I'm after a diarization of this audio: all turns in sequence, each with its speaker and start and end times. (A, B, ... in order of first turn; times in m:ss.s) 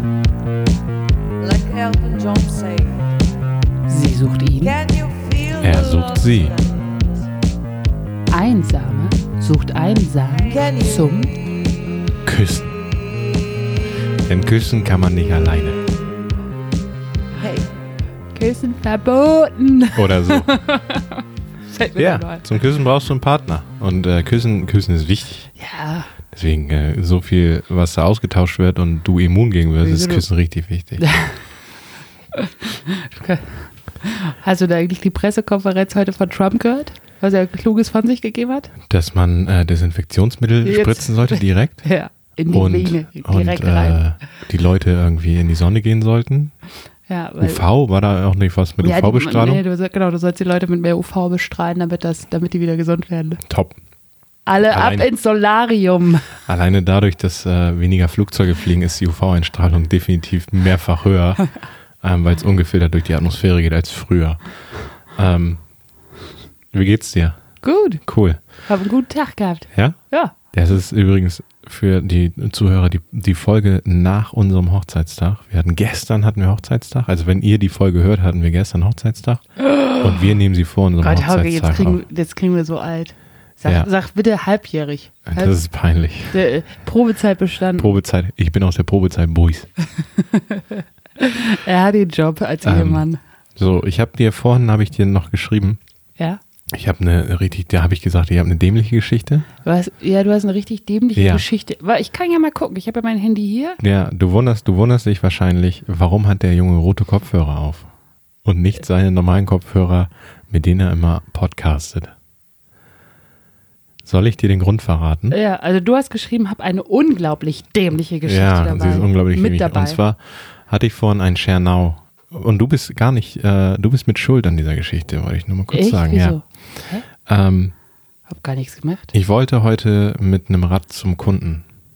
0:01.4-0:03.1 A
0:03.9-0:04.8 B
0:04.6-0:07.3 A
0:05.6-0:06.6 C
0:08.3-0:11.3 B
0:10.5-0:11.3 A
0:12.2-0:12.7 C
0:14.2-0:15.8 C
0:18.3-0:21.2 B
0:19.9-0:20.5 C
0:21.7-0:22.4 B
0:22.0-0:25.5 C
0:25.6-0:26.1 B
0:26.3-0:31.0 C
0:29.8-0:30.2 B
0:31.0-0:31.4 B
0:32.3-0:38.7 B
0:38.9-0:41.8 C
0:40.6-0:44.0 B
0:42.5-0:46.5 C
0:47.1-0:47.6 B
0:47.4-0:49.6 C
0:48.8-0:53.4 B
0:53.4-0:53.8 C
0:54.4-0:56.3 B
0:54.7-0:55.1 C
0:56.4-1:01.4 C
1:02.0-1:04.4 C
1:05.1-1:05.6 C
1:06.7-1:07.4 C
1:07.6-1:08.0 B
1:08.0-1:08.4 C
1:08.6-1:10.3 B
1:10.5-1:19.4 C
1:19.6-1:20.2 B
1:20.0-1:22.0 C
1:21.0-1:25.5 B
1:25.2-1:26.4 C
1:26.3-1:28.0 B
1:27.8-1:29.7 C
1:30.2-1:33.2 B
1:32.6-1:33.0 C
1:33.6-1:35.8 C
1:36.7-1:39.5 C
1:39.6-1:43.8 B
1:41.2-1:41.4 C
1:43.8-1:47.9 C
1:48.4-1:52.1 C
1:54.0-1:55.4 C
1:55.3-2:00.0 B
1:58.2-2:06.4 C
2:05.7-2:07.0 B
2:07.2-2:07.7 C
2:08.3-2:09.1 B
2:09.1-2:11.6 C